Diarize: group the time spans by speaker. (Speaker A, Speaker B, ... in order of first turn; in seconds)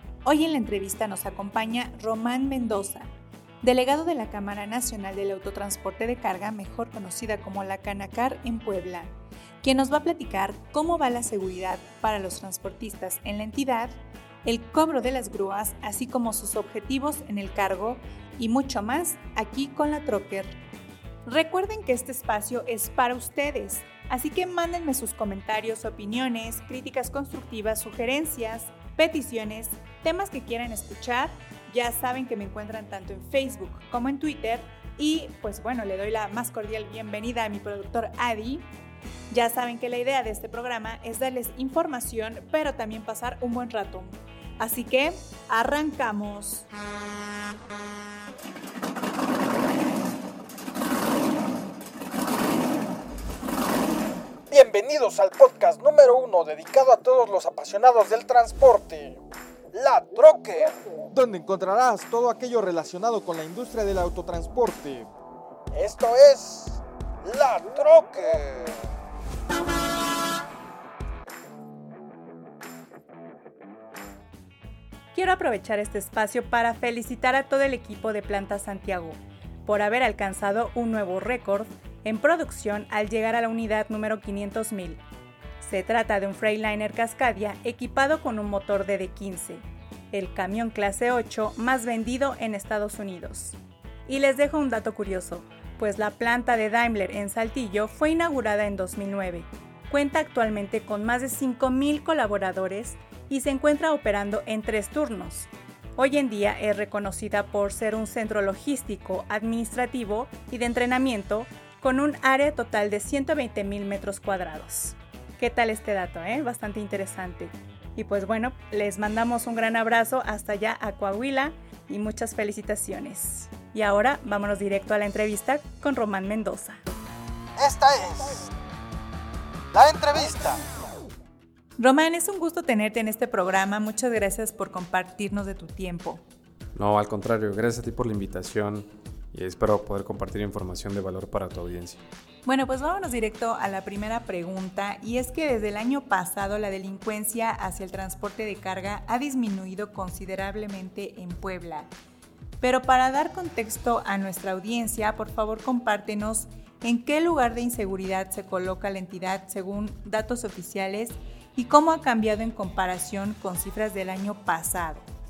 Speaker A: 0.2-20.6, 21.3-38.7, 39.3-46.7, 75.1-85.0, 85.6-126.8, 131.8-136.2, 142.4-151.9, 152.6-165.1
Speaker B: 54.5-59.2, 59.7-65.1, 65.7-68.8, 127.6-128.5, 129.7-130.7
Speaker C: 136.8-142.1